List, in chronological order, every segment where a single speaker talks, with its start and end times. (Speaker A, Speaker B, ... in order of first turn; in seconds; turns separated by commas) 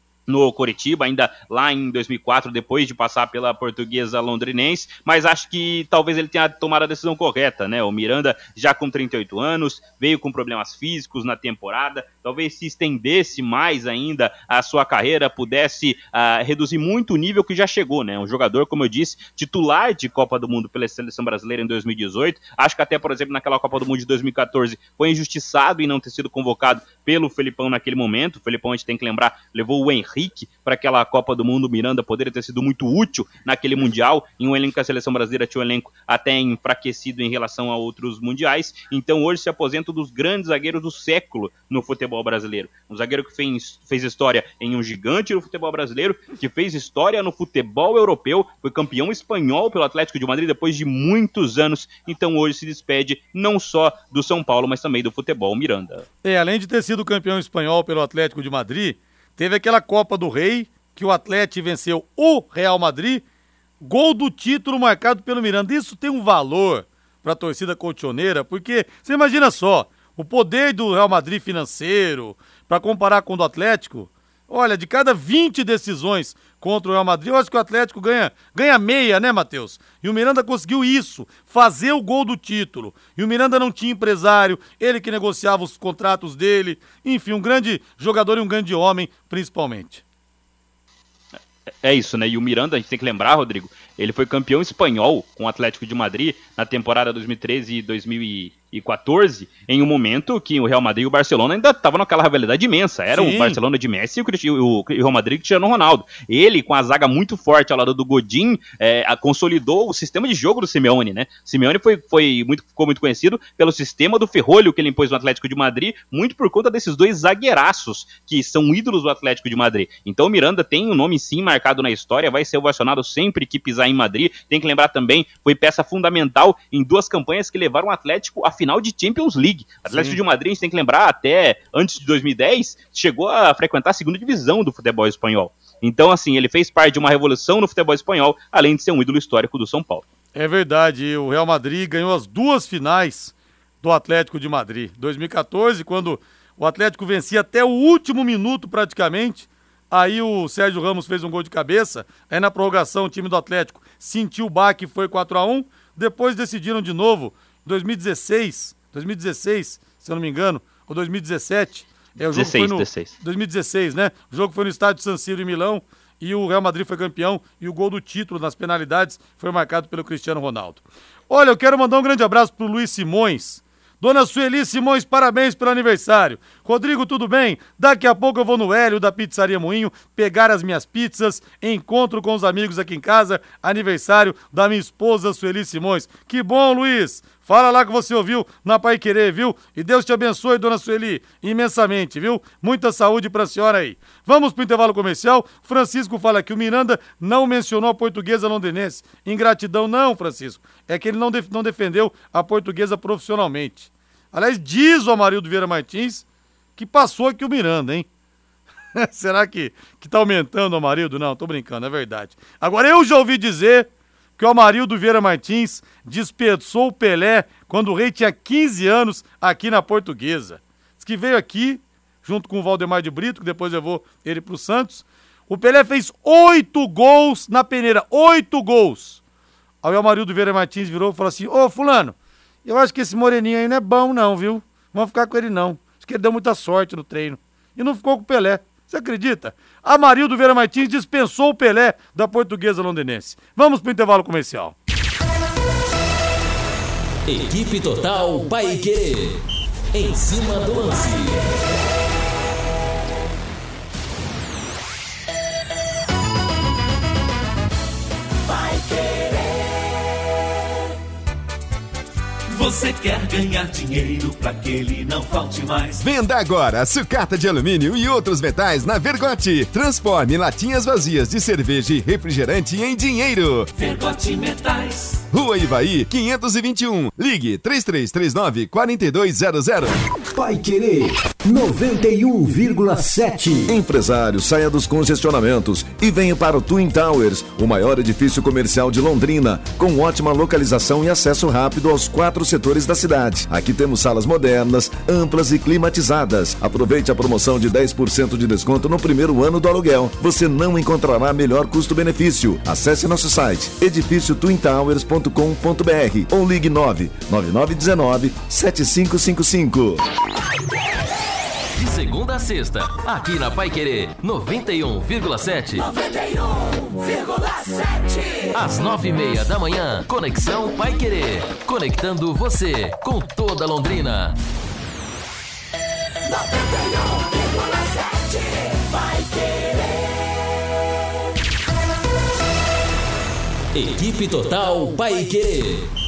Speaker A: 0.3-56.1, Speaker B: 56.2-63.2, Speaker B: 63.8-90.0, Speaker A: 91.8-140.1, Speaker B: 103.1-103.6, Speaker B: 129.9-130.2, Speaker B: 140.3-206.2, Speaker A: 162.3-163.1, Speaker B: 206.8-208.1, Speaker B: 208.9-229.2, Speaker B: 229.8-244.8, Speaker C: 247.3-249.4, Speaker C: 249.9-251.7, Speaker D: 262.5-266.0, Speaker E: 266.0-273.7, Speaker D: 273.8-275.2, Speaker E: 275.3-279.9, Speaker F: 280.3-283.8, Speaker G: 283.7-310.0, Speaker C: 311.7-316.1, Speaker C: 317.7-324.4, Speaker C: 327.0-329.7, Speaker C: 333.7-335.9